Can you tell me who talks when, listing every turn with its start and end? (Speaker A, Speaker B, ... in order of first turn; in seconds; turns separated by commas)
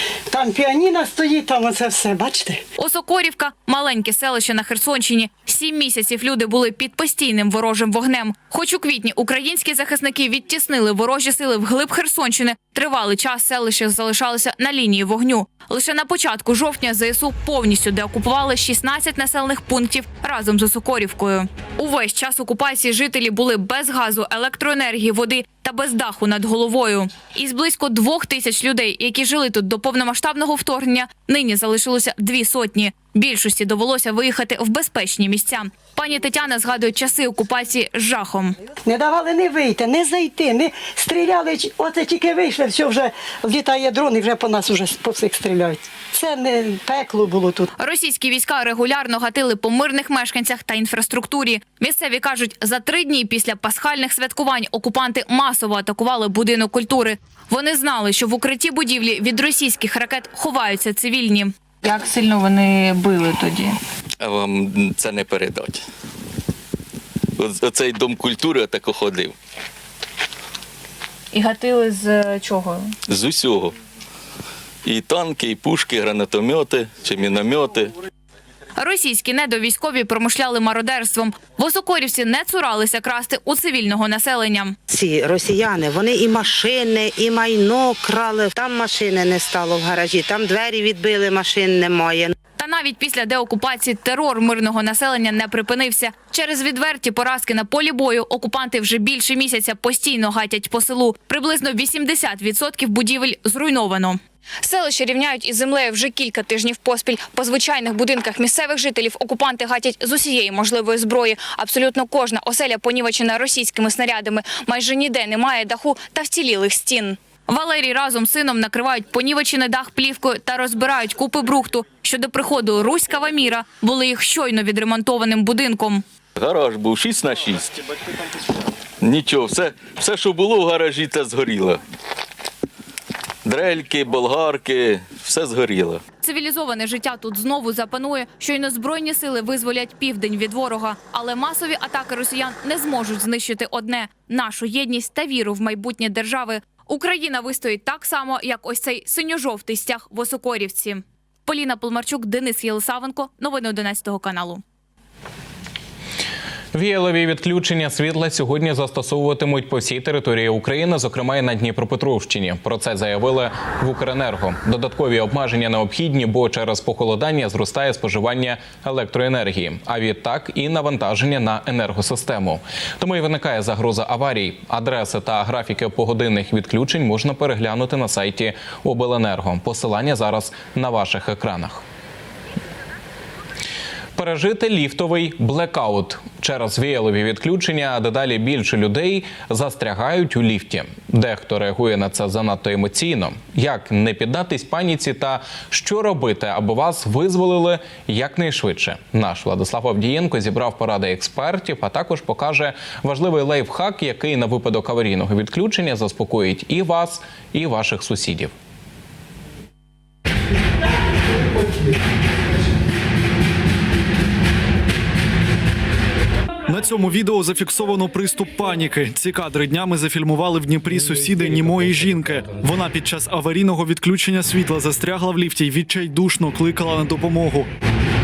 Speaker A: 0.3-2.6, Speaker B: 2.8-38.6, Speaker A: 38.9-47.7, Speaker B: 47.8-61.5, Speaker C: 61.8-63.8, Speaker D: 64.2-65.8, Speaker D: 67.4-69.3, Speaker C: 71.3-72.9, Speaker D: 73.1-73.8, Speaker D: 74.8-77.9, Speaker B: 78.8-84.8, Speaker E: 84.9-92.3, Speaker B: 92.6-126.0, Speaker D: 126.4-127.8, Speaker D: 129.0-131.8, Speaker D: 133.4-136.0, Speaker B: 136.2-154.6, Speaker F: 156.7-181.8, Speaker F: 184.2-208.5, Speaker G: 216.7-227.7